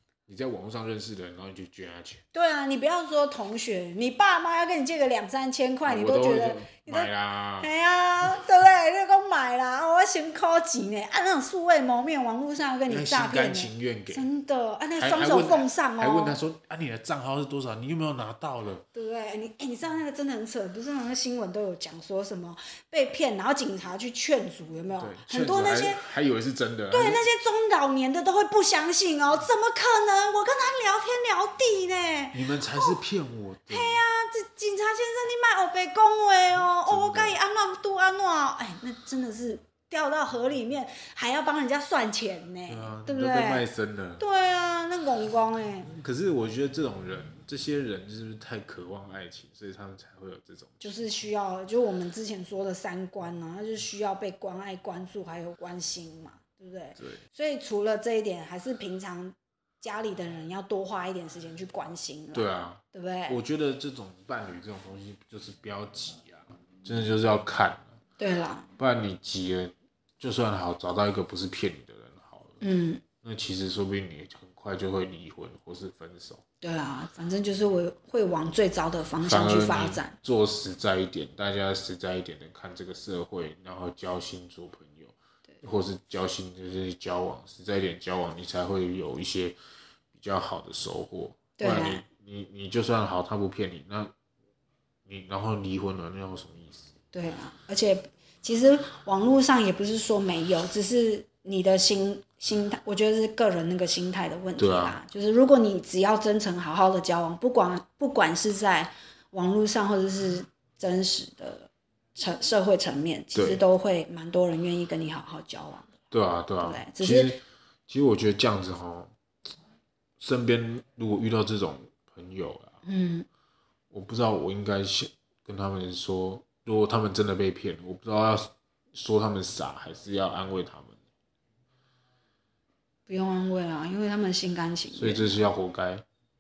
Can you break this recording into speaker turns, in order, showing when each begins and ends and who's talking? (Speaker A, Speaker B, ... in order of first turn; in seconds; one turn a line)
Speaker A: 0.3-2.2
Speaker B: 2.3-16.4
Speaker A: 5.8-7.7
Speaker A: 12.9-14.3
Speaker A: 15.0-18.9
Speaker B: 18.9-26.0
Speaker A: 25.0-27.2
Speaker B: 26.9-33.0
Speaker A: 32.3-34.0
Speaker B: 33.7-43.7
Speaker A: 36.7-37.4
Speaker A: 42.7-44.2
Speaker B: 44.2-45.9
Speaker A: 45.9-51.0
Speaker B: 50.8-63.4
Speaker A: 62.3-68.0
Speaker B: 68.2-68.7
Speaker A: 68.8-72.6
Speaker B: 72.6-73.0
Speaker A: 73.2-76.4
Speaker B: 76.6-80.2
Speaker A: 79.2-89.6
Speaker A: 90.1-94.1
Speaker B: 91.6-92.0
Speaker A: 95.1-96.9
Speaker B: 97.1-115.9
Speaker A: 104.6-105.0
Speaker A: 113.3-113.6
Speaker A: 116.1-119.1
Speaker B: 116.6-117.4
Speaker A: 120.2-122.8
Speaker B: 122.8-123.3
Speaker A: 123.9-131.0
Speaker B: 133.1-135.4
Speaker A: 134.9-136.0